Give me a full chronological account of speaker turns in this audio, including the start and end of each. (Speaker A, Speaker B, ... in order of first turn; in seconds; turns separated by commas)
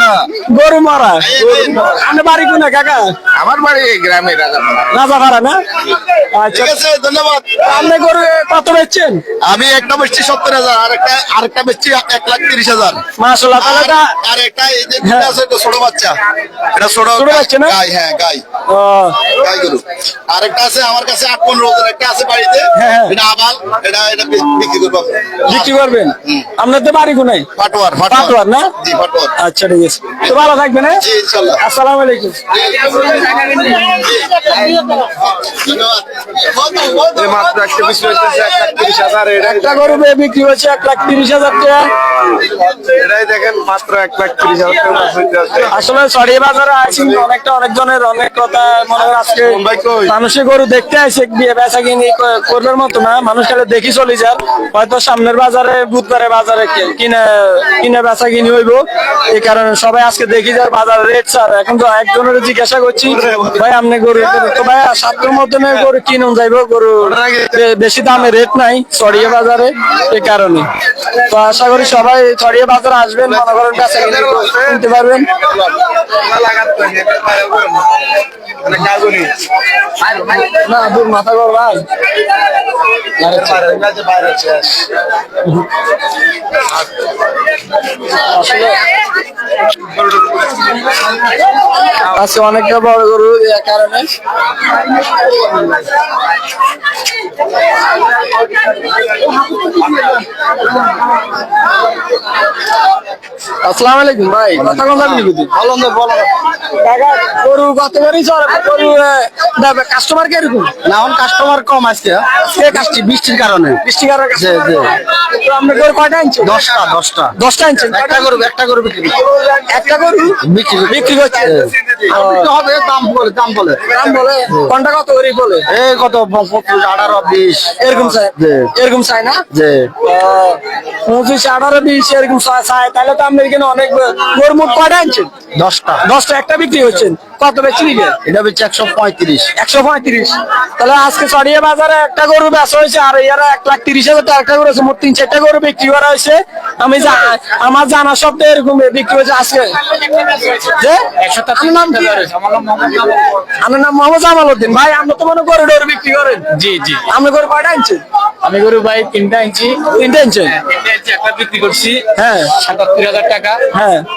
Speaker A: 0.5-3.1, Speaker B: 1.2-1.8, Speaker C: 1.4-1.8, Speaker C: 3.7-4.7, Speaker A: 4.9-5.6, Speaker A: 6.3-6.7, Speaker B: 6.5-7.7, Speaker A: 7.6-9.2, Speaker B: 9.4-13.0, Speaker A: 13.2-14.1, Speaker B: 13.6-16.1, Speaker A: 15.0-15.4, Speaker B: 16.7-18.4, Speaker A: 16.9-17.8, Speaker A: 18.7-19.2, Speaker B: 19.3-25.3, Speaker A: 22.7-23.1, Speaker A: 25.4-27.5, Speaker B: 27.6-29.3, Speaker A: 28.0-28.7, Speaker A: 29.4-31.0, Speaker B: 31.0-31.6, Speaker A: 31.6-32.4, Speaker C: 32.7-33.4, Speaker A: 33.5-35.0, Speaker C: 33.9-34.4, Speaker C: 35.4-37.2, Speaker B: 35.4-36.9, Speaker D: 37.1-40.0, Speaker A: 39.4-41.9, Speaker D: 42.6-45.7, Speaker A: 45.7-75.3, Speaker D: 49.3-50.1, Speaker D: 74.2-74.5, Speaker D: 76.2-78.0, Speaker D: 78.6-79.3, Speaker A: 80.4-81.8, Speaker A: 83.2-83.7, Speaker D: 84.2-84.7, Speaker A: 88.0-88.8, Speaker A: 91.9-94.1, Speaker A: 103.6-105.5, Speaker C: 105.5-106.2, Speaker A: 106.8-110.7, Speaker C: 110.9-112.2, Speaker A: 112.5-113.1, Speaker C: 112.8-113.8, Speaker A: 113.8-116.6, Speaker C: 114.5-114.8, Speaker C: 116.5-117.3, Speaker A: 117.3-118.3, Speaker C: 118.0-119.2, Speaker A: 119.7-122.5, Speaker C: 120.5-121.7, Speaker C: 122.6-123.8, Speaker A: 123.9-125.7, Speaker C: 125.7-127.7, Speaker A: 127.8-129.4, Speaker C: 129.5-129.9, Speaker A: 130.0-135.3, Speaker C: 135.6-136.0, Speaker A: 136.0-138.2, Speaker C: 138.2-139.4, Speaker A: 139.6-149.7, Speaker A: 150.3-152.3, Speaker E: 151.2-153.1, Speaker A: 153.6-156.5, Speaker E: 156.6-157.0, Speaker A: 157.1-158.0, Speaker E: 158.4-159.8, Speaker A: 159.8-160.6, Speaker E: 160.7-162.0, Speaker A: 162.1-162.6, Speaker E: 162.6-163.6, Speaker A: 163.7-164.0